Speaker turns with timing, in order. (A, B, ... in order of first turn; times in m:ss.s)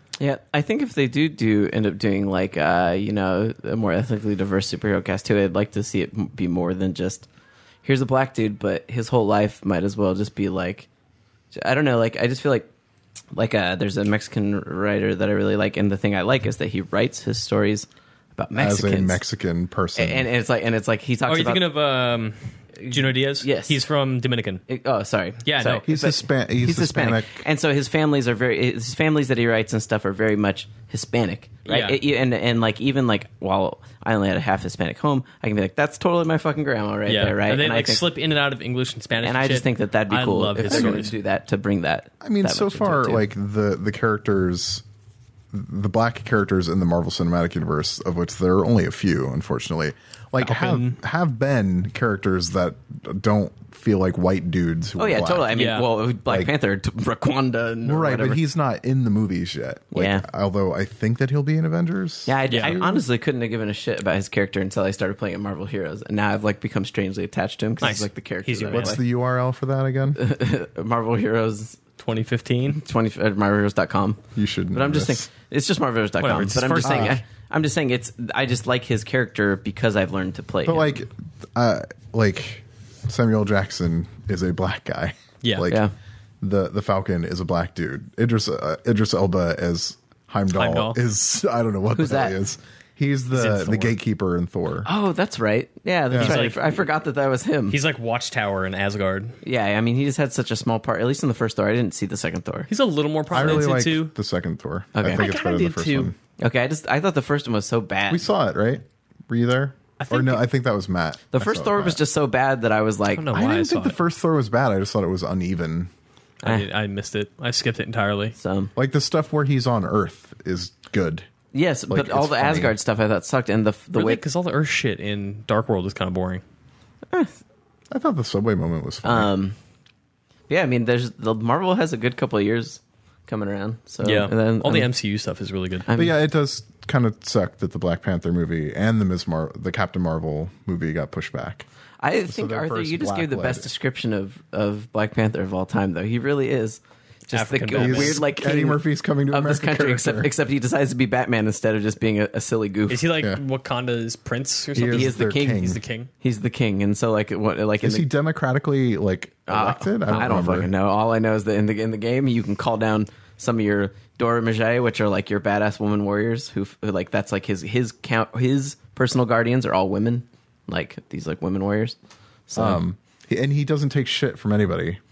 0:00.2-0:07.3 A
0:07.8-0:10.9 A
0:11.5-0:12.7 A
0:13.3-0:19.2 A
0:18.5-0:20.3 B
0:20.0-0:21.6 A
0:21.2-0:24.6 C
0:22.8-0:23.8 A
0:24.7-0:38.0 A
0:25.4-0:25.8 C
0:25.8-0:27.4 B
0:31.6-0:32.0 C
0:37.0-0:41.1 C
0:39.2-0:43.2 A
0:40.7-0:41.0 B
0:42.2-0:44.8 B
0:45.5-0:55.5 B
0:50.4-0:51.0 C
0:55.0-0:58.4 A
0:55.5-0:55.9 C
0:57.8-1:02.9 B
0:59.9-1:00.2 A
1:02.2-1:09.0 A
1:02.5-1:03.0 C
1:07.8-1:09.0 C
1:08.7-1:10.2 B
1:10.1-1:11.8 A
1:12.0-1:12.8 C
1:12.7-1:14.2 A
1:14.3-1:15.3 B
1:14.7-1:21.0 A
1:16.2-1:17.2 C
1:16.8-1:17.2 B
1:20.6-1:25.8 B
1:25.4-1:25.7 C
1:26.4-1:34.9 B
1:30.5-1:31.0 C
1:31.9-1:32.4 A
1:33.3-1:33.9 C
1:34.8-1:37.8 A
1:36.1-1:36.4 B
1:36.1-1:36.8 C
1:37.7-1:39.4 C
1:39.4-1:42.7 A
1:42.7-1:44.1 C
1:43.3-1:46.2 B
1:44.9-1:45.3 A
1:45.0-1:46.1 C
1:46.4-1:48.3 A
1:48.1-1:52.0 B
1:50.0-1:50.4 C
1:51.3-1:53.3 A
1:53.1-1:54.0 C
1:53.3-1:55.9 B
1:56.4-1:58.3 C
1:58.4-1:58.7 A
1:58.8-2:01.3 B
2:01.5-2:04.2 A
2:01.9-2:02.7 B
2:03.9-2:06.4 C
2:07.9-2:09.3 B
2:09.0-2:09.6 A
2:10.5-2:14.9 A
2:14.0-2:15.9 C
2:15.8-2:16.1 A
2:15.9-2:21.6 B
2:22.0-2:33.1 A
2:22.3-2:23.7 B
2:27.3-2:28.2 C
2:27.7-2:30.3 B
2:32.9-2:36.1 C
2:34.7-2:35.8 B
2:34.9-2:35.7 A
2:36.2-2:38.1 A
2:37.8-2:40.7 B
2:39.5-2:52.0 A
2:52.5-2:52.8 A
2:52.6-2:55.0 B